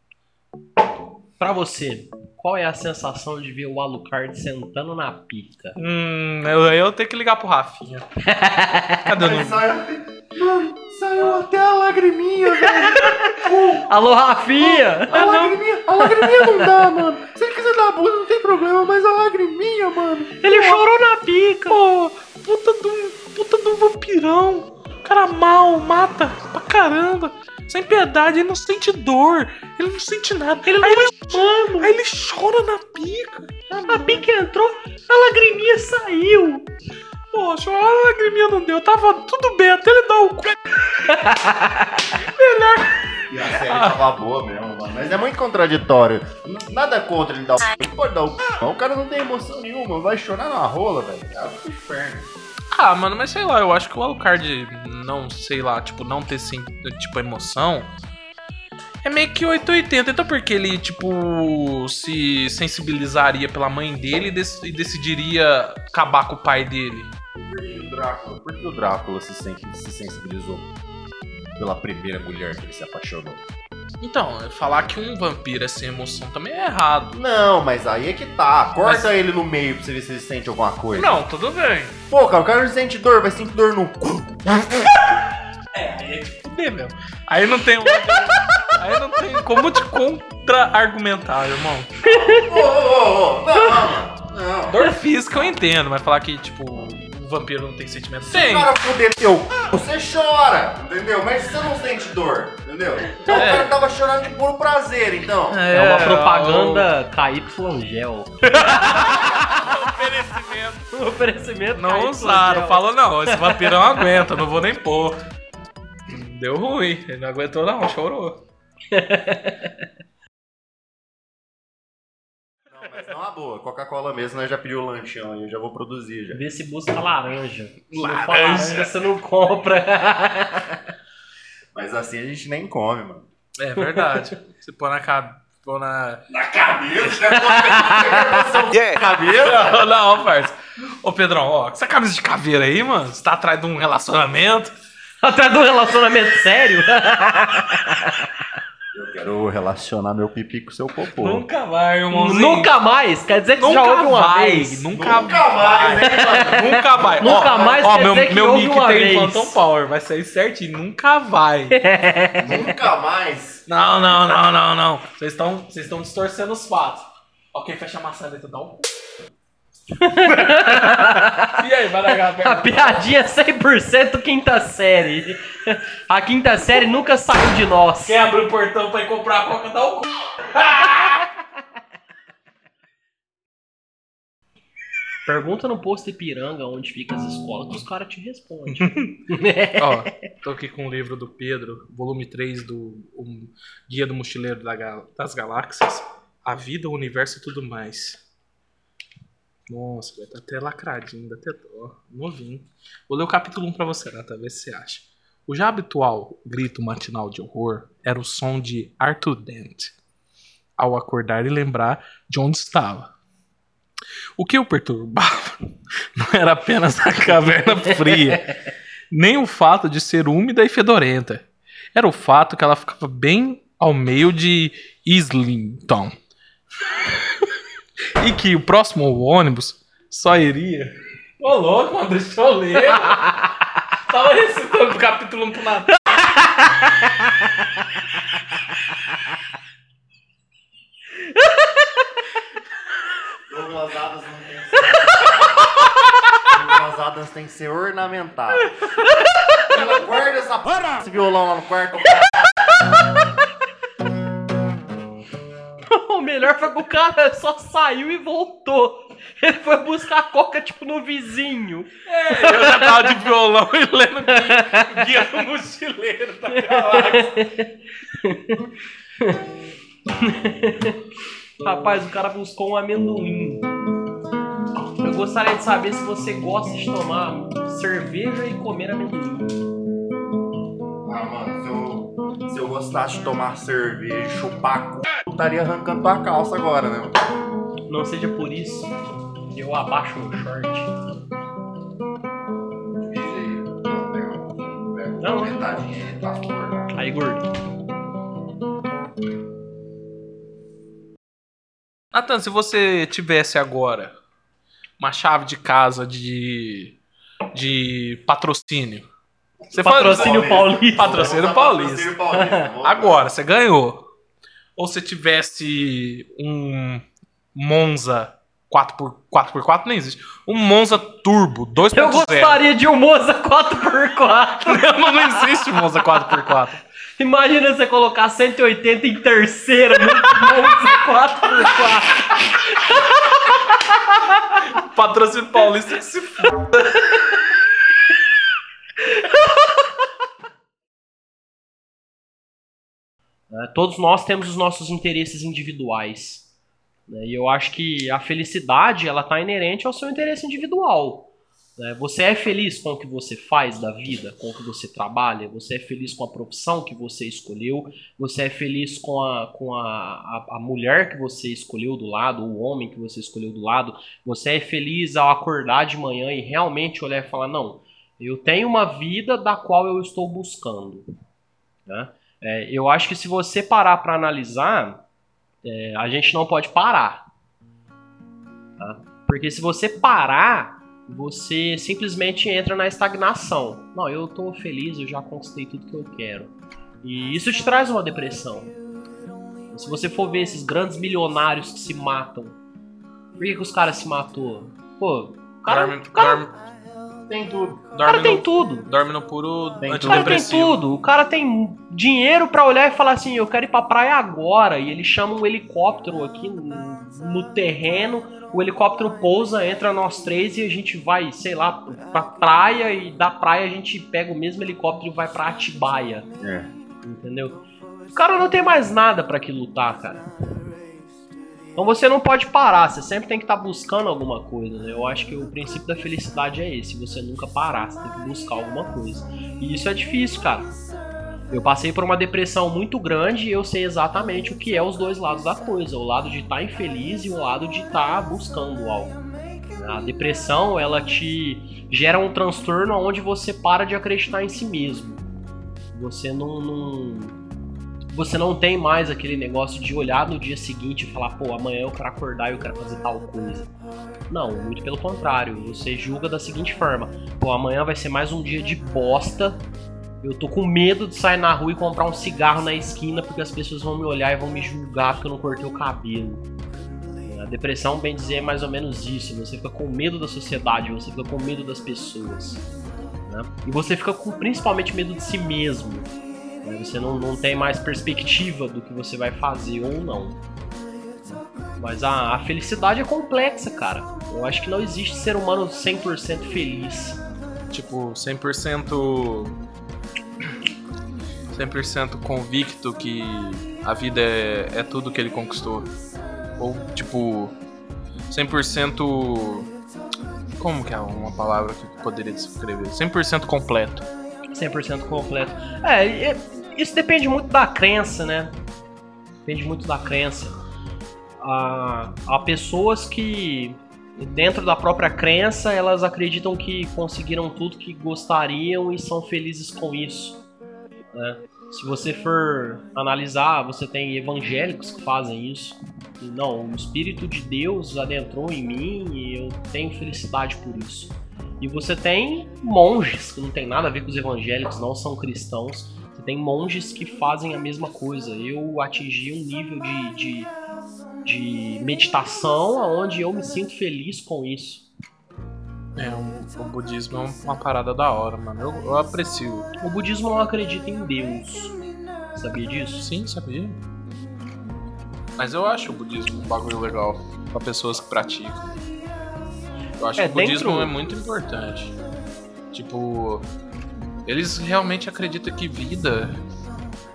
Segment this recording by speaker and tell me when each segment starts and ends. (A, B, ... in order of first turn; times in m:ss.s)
0:01.4-0:05.8 A
0:05.8-0:08.0 B
0:08.2-0:09.1 A
0:09.0-0:09.6 B
0:09.2-0:13.8 C
0:12.5-0:15.3 A
0:14.6-0:20.5 C
0:15.1-0:15.6 B
0:16.0-0:16.7 A
0:20.4-0:21.8 A
0:20.5-0:20.8 B
0:21.7-0:34.2 B
0:30.6-0:31.9 A
0:33.7-0:36.7 A
0:37.3-0:40.6 B
0:41.0-0:42.1 A
0:42.1-0:44.0 B
0:43.3-0:52.3 C
0:52.7-0:57.9 B
0:59.0-1:07.1 B
1:07.3-1:10.7 C
1:11.6-1:13.4 C
1:14.0-1:17.2 B
1:17.1-1:21.2 C
1:18.8-1:19.1 B
1:20.9-1:22.0 B
1:22.1-1:25.1 C
1:25.7-1:32.0 B
1:32.0-1:34.8 C
1:32.0-1:32.6 A
1:34.7-1:38.7 B
1:38.3-1:45.6 C
1:43.2-1:43.8 B
1:45.5-1:46.9 B
1:45.7-1:49.6 A
1:48.5-1:50.9 B
1:50.9-1:54.0 A
1:51.8-1:55.2 B
1:56.1-1:58.4 B
1:58.9-1:59.8 A
2:02.7-2:06.4 C
2:06.3-2:10.8 A
2:07.9-2:08.9 B
2:11.7-2:13.2 C
2:13.6-2:16.2 B
2:16.3-2:19.8 C
2:17.2-2:18.6 A
2:18.9-2:24.7 B
2:25.2-2:28.3 A
2:28.9-2:31.4 C
2:31.1-2:32.7 B
2:32.1-2:34.9 A
2:33.6-2:41.8 B
2:34.9-2:37.8 C
2:36.0-2:39.6 A
2:41.7-2:42.8 A
2:42.4-2:43.6 C
2:43.7-2:48.9 B
2:49.9-2:51.6 A
2:50.2-2:53.1 B
2:52.3-2:58.2 A
2:58.0-3:01.2 B
3:05.2-3:10.2 A
3:08.7-3:09.2 B
3:09.8-3:18.2 B
3:19.7-3:29.9 B
3:30.8-3:33.1 B
3:34.4-3:38.6 B
3:39.1-3:46.1 B
3:48.2-3:56.0 B
4:03.5-4:05.6 C
4:06.4-4:08.8 C
4:08.6-4:09.7 A
4:09.6-4:12.4 C
4:12.4-4:12.9 A
4:15.9-4:23.2 A
4:22.1-4:27.4 B
4:24.3-4:25.2 A
4:26.5-4:29.4 A
4:30.1-4:31.0 A
4:31.6-4:33.7 A
4:35.0-4:39.6 A
4:41.0-4:47.3 C
4:47.9-4:48.9 A
4:49.5-4:50.9 A
4:53.0-4:56.9 C
4:55.2-4:55.8 A
4:56.9-4:57.4 A
5:02.1-5:04.1 B
5:05.0-5:07.0 B
5:07.5-5:09.0 B
5:09.6-5:13.3 C
5:09.7-5:12.2 B
5:09.8-5:11.3 A
5:12.3-5:12.7 A
5:12.8-5:14.0 B
5:14.8-5:17.0 B
5:17.5-5:22.6 B
5:21.9-5:25.5 A
5:24.6-5:26.8 B
5:27.2-5:34.6 A
5:30.1-5:30.7 B
5:34.5-5:37.2 B
5:39.0-5:39.9 A
5:43.5-5:46.5 A
5:47.1-6:11.1 A
6:11.9-6:15.0 A
6:15.6-6:17.3 A
6:18.8-6:28.7 A
6:29.7-6:32.6 A
6:33.4-6:36.5 A
6:35.7-6:36.6 B
6:37.3-6:37.8 C
6:37.9-6:40.8 B
6:38.0-6:38.9 A
6:39.8-6:40.4 C
6:40.0-6:56.3 A
6:56.4-6:56.7 C
6:57.0-7:00.2 A
7:01.8-7:10.7 A
7:11.5-7:19.2 A
7:19.7-7:25.2 A
7:25.9-7:27.4 A
7:28.1-7:33.7 A
7:34.3-7:39.6 A
7:40.2-7:46.4 A
7:47.2-7:52.6 A
7:53.2-7:56.1 A
7:56.6-8:00.4 A
8:01.2-8:07.2 A
8:07.7-8:09.6 B
8:11.5-8:15.9 B
8:16.6-8:17.5 B
8:18.3-8:19.7 B
8:20.6-8:24.1 B
8:24.5-8:28.5 A
8:29.4-8:30.6 A
8:31.4-8:40.4 A
8:41.1-9:00.5 A
9:01.2-9:04.9 A
9:06.0-9:09.7 B
9:09.8-9:11.8 A
9:12.3-9:13.1 A
9:13.0-9:13.8 B
9:15.4-9:18.7 B
9:20.0-9:22.0 B
9:20.2-9:20.9 A
9:22.7-9:23.5 B
9:24.3-9:26.4 B